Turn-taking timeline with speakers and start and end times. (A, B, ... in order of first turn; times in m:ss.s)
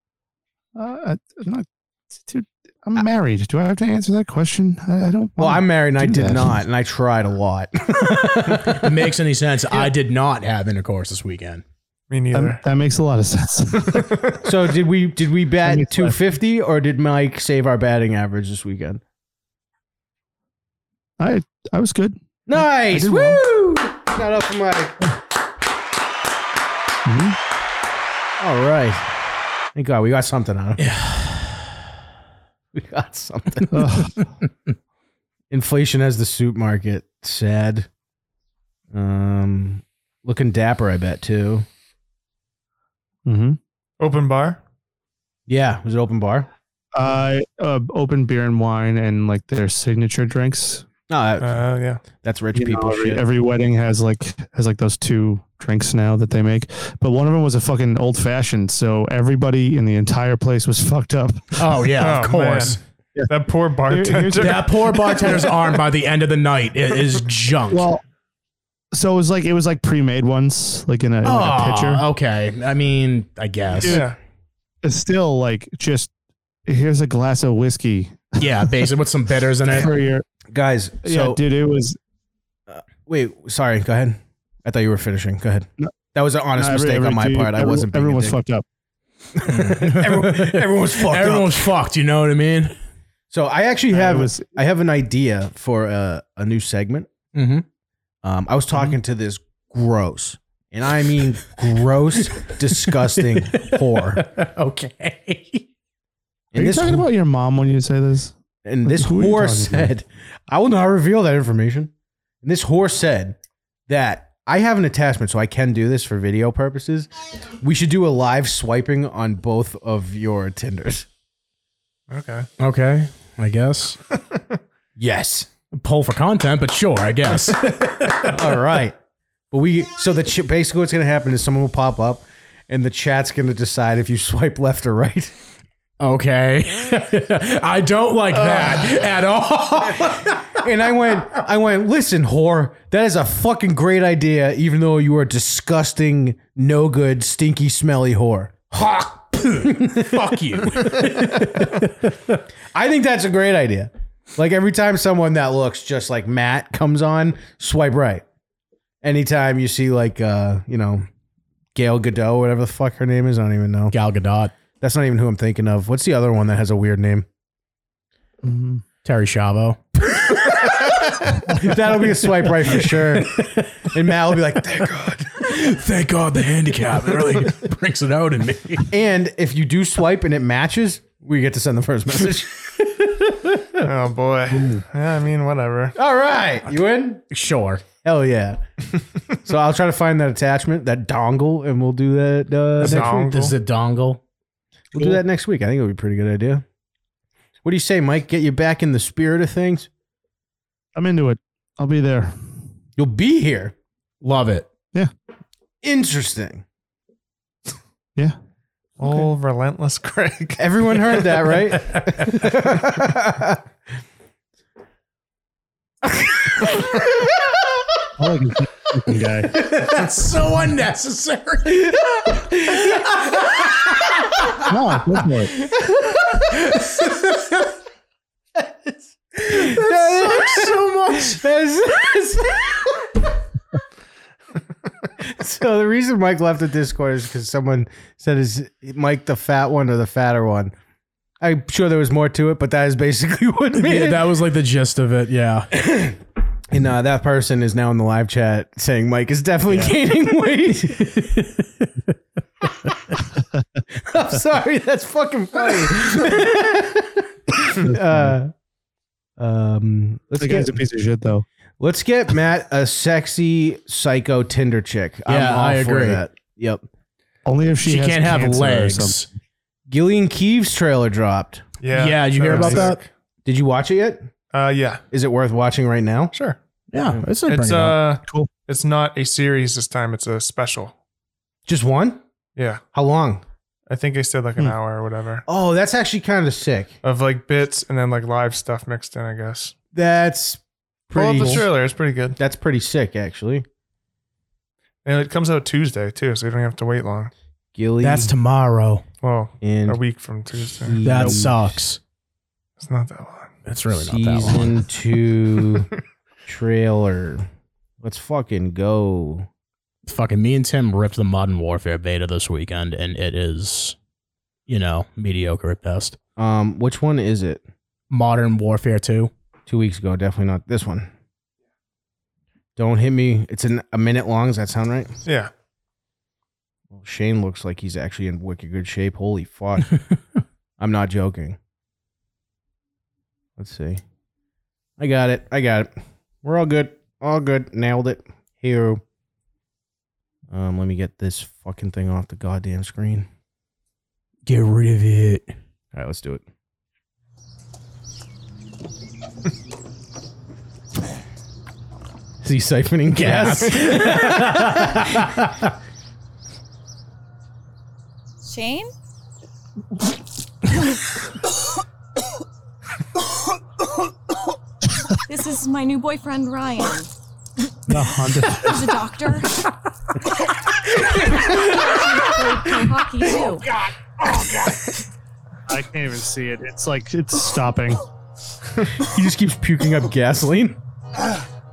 0:00.8-0:06.6 A
0:05.4-0:08.9 B
0:08.7-0:11.6 C
0:12.1-0:12.6 D
0:12.3-0:14.2 A
0:13.9-0:14.3 D
0:14.4-0:19.0 B
0:15.6-0:16.2 A
0:21.2-0:23.4 A
0:22.5-0:25.1 B
0:27.1-0:27.4 A
0:28.4-0:29.0 B
0:29.8-0:30.8 B
0:30.8-0:31.7 C
0:32.7-0:33.8 B
0:33.7-0:34.1 A
0:35.5-0:37.9 B
0:38.9-0:41.7 B
0:43.2-0:43.6 A
0:44.0-0:44.6 D
0:45.5-0:46.5 B
0:46.9-0:50.9 A
0:51.1-0:53.2 B
0:51.4-0:52.0 D
0:52.6-1:01.6 A
1:01.6-1:02.8 C
1:02.0-1:02.8 D
1:03.3-1:04.7 D
1:03.9-1:05.4 A
1:04.4-1:07.9 C
1:07.7-1:08.0 A
1:08.9-1:12.0 A
1:11.2-1:14.0 C
1:13.8-1:14.2 D
1:14.8-1:16.1 A
1:16.7-1:18.7 A
1:18.4-1:19.9 C
1:19.7-1:20.2 A
1:20.5-1:21.4 B
1:21.0-1:22.0 A
1:22.7-1:28.4 B
1:26.6-1:28.6 A
1:29.4-1:31.7 B
1:29.5-1:32.7 C
1:33.3-1:37.1 B
1:33.9-1:34.6 A
1:37.4-1:37.6 C
1:38.2-1:44.2 B
1:43.5-1:45.7 C
1:46.5-1:47.1 B
1:46.6-1:49.9 A
1:48.6-1:51.9 B
1:52.4-1:53.4 B
1:53.9-2:01.1 B
2:02.1-2:02.5 D
2:02.6-2:04.0 C
2:05.0-2:05.5 B
2:05.7-2:08.4 C
2:08.2-2:09.0 B
2:09.5-2:15.3 B
2:16.0-2:20.4 C
2:18.3-2:19.0 B
2:19.9-2:30.2 B
2:29.3-2:32.4 C
2:30.7-2:31.7 B
2:32.7-2:38.2 B
2:39.0-2:41.1 B
2:41.7-2:43.9 B
2:43.9-2:44.5 C
2:44.8-2:47.3 B
2:48.4-2:48.8 A
2:49.0-2:50.9 C
2:50.5-2:55.5 B
2:52.7-2:53.9 C
2:55.4-2:58.9 C
2:58.9-3:03.8 B
3:03.8-3:06.0 D
3:04.5-3:04.8 A
3:06.0-3:07.2 B
3:07.3-3:07.8 C
3:08.0-3:08.6 B
3:09.4-3:13.2 B
3:12.8-3:13.6 D
3:12.8-3:14.2 C
3:14.9-3:16.6 B
3:15.0-3:15.2 A
3:17.6-3:19.9 B
3:21.0-3:22.6 A
3:23.0-3:23.7 B
3:24.2-3:24.7 C
3:25.8-3:26.6 B
3:29.0-3:30.6 D
3:30.6-3:33.6 B
3:38.2-3:39.5 A
3:39.5-3:42.0 C
3:42.3-3:43.2 B
3:44.7-3:45.5 A
3:45.9-3:47.0 B
3:48.6-3:53.1 B
3:49.4-3:51.4 C
3:55.2-4:00.7 B
4:01.4-4:04.2 B
4:03.7-4:05.7 C
4:05.8-4:06.2 B
4:06.7-4:11.4 B
4:11.3-4:11.9 C
4:14.0-4:18.5 B
4:17.8-4:18.4 A
4:19.4-4:20.8 B
4:20.4-4:21.4 A
4:21.8-4:26.8 B
4:25.3-4:26.2 C
4:27.4-4:29.2 A
4:27.8-4:29.3 C
4:29.9-4:31.6 B
4:31.8-4:33.1 D
4:31.9-4:33.0 C
4:33.5-4:34.3 B
4:34.5-4:35.0 D
4:35.1-4:36.3 B
4:36.3-4:36.6 D
4:36.9-4:38.0 C
4:37.5-4:41.0 D
4:41.7-4:42.2 B
4:42.6-4:42.8 D
4:42.9-4:43.4 B
4:43.9-4:45.4 D
4:45.5-4:47.0 B
4:47.0-4:49.8 D
4:49.9-4:51.8 B
4:51.1-4:52.4 D
4:52.4-4:53.6 B
4:55.0-4:57.3 D
4:57.8-4:58.3 B
4:58.0-4:59.0 C
4:59.2-5:01.0 D
4:59.6-5:00.0 B
5:00.7-5:01.8 B
5:01.0-5:02.0 C
5:02.8-5:03.5 D
5:03.6-5:04.8 C
5:03.9-5:05.9 B
5:06.5-5:07.5 B
5:08.0-5:09.5 B
5:10.1-5:14.0 C
5:14.7-5:16.2 C
5:16.4-5:17.6 B
5:18.1-5:19.3 C
5:19.7-5:21.1 B
5:22.8-5:25.1 B
5:25.2-5:25.5 D
5:26.9-5:30.0 B
5:30.8-5:31.6 B
5:33.6-5:34.0 B
5:35.0-5:39.0 B
5:40.5-5:43.3 B
5:44.5-5:45.5 C
5:45.9-5:46.4 B
5:52.4-5:55.1 B
5:53.1-5:55.5 C
5:58.4-5:58.9 E
6:05.3-6:07.1 E
6:07.9-6:09.0 A
6:08.6-6:09.5 E
6:11.6-6:13.6 E
6:15.7-6:18.0 A
6:18.9-6:20.8 B